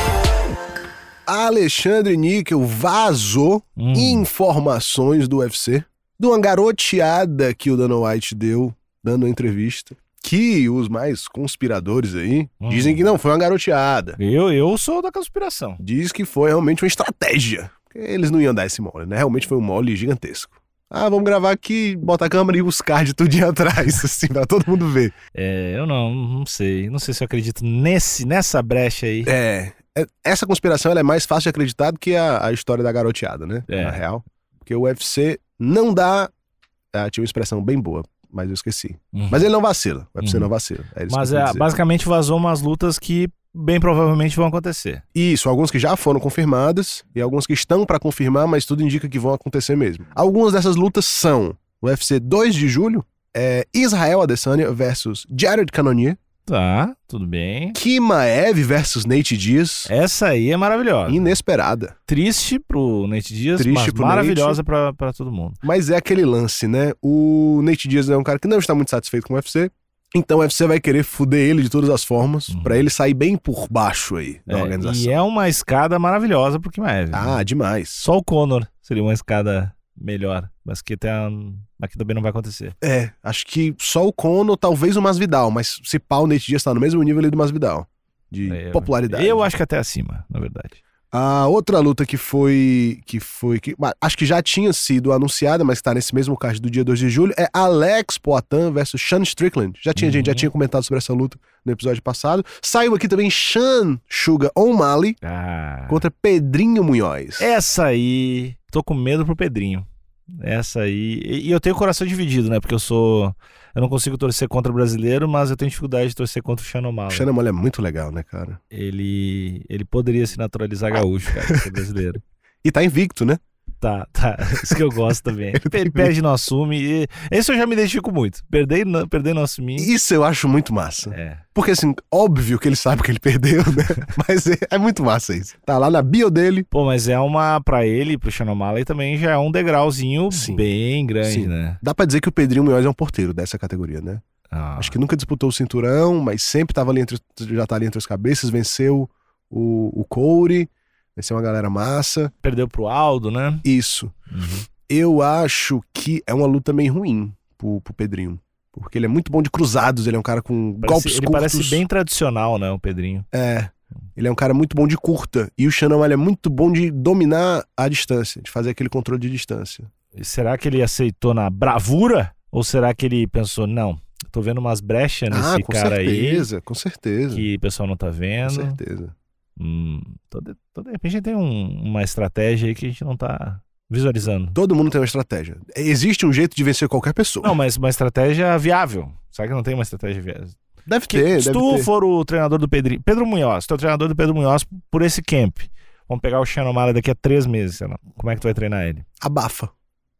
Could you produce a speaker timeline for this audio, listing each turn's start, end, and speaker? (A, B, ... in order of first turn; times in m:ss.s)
0:01.3-0:14.2 A
0:03.8-0:04.3 B
0:12.6-0:13.1 B
0:14.2-0:15.8 B
0:15.8-0:25.1 A
0:25.3-0:29.3 B
0:29.2-0:36.3 A
0:33.7-0:34.0 B
0:36.9-0:41.7 A
0:39.1-0:39.5 B
0:40.2-0:40.5 B
0:41.1-0:45.0 B
0:45.1-0:56.2 A
0:56.4-0:57.8 B
0:57.7-0:59.9 A
0:59.9-1:01.4 B
1:01.1-1:01.9 A
1:02.1-1:05.6 B
1:03.6-1:04.6 A
1:05.6-1:15.1 A
1:12.5-1:12.9 B
1:14.5-1:17.4 B
1:17.1-1:18.0 A
1:18.0-1:22.8 B
1:22.8-1:29.5 A
1:28.4-1:30.8 B
1:31.1-1:45.2 A
1:40.0-1:40.5 B
1:45.2-1:46.0 B
1:45.9-1:47.5 A
1:47.4-1:49.8 B
1:50.4-1:57.3 B
1:57.1-1:58.6 A
1:58.7-2:02.2 B
2:02.6-2:03.4 A
2:03.8-2:09.9 B
2:05.5-2:06.1 A
2:09.8-2:16.7 A
2:11.1-2:11.4 B
2:16.7-2:21.8 B
2:20.3-2:20.6 A
2:21.2-2:24.2 A
2:24.5-2:25.0 B
2:24.8-2:32.3 A
2:32.4-2:33.6 B
2:33.6-2:34.1 A
2:34.3-2:34.6 B
2:34.9-2:41.8 A
2:40.8-2:43.2 B
2:43.3-2:49.9 A
2:50.1-2:56.5 B
2:55.3-2:57.4 A
2:57.3-2:58.8 B
2:58.4-2:59.1 A
2:59.6-3:04.6 B
3:04.5-3:07.6 A
3:07.4-3:10.6 B
3:10.9-3:11.9 A
3:11.1-3:19.0 B
3:19.2-3:19.7 A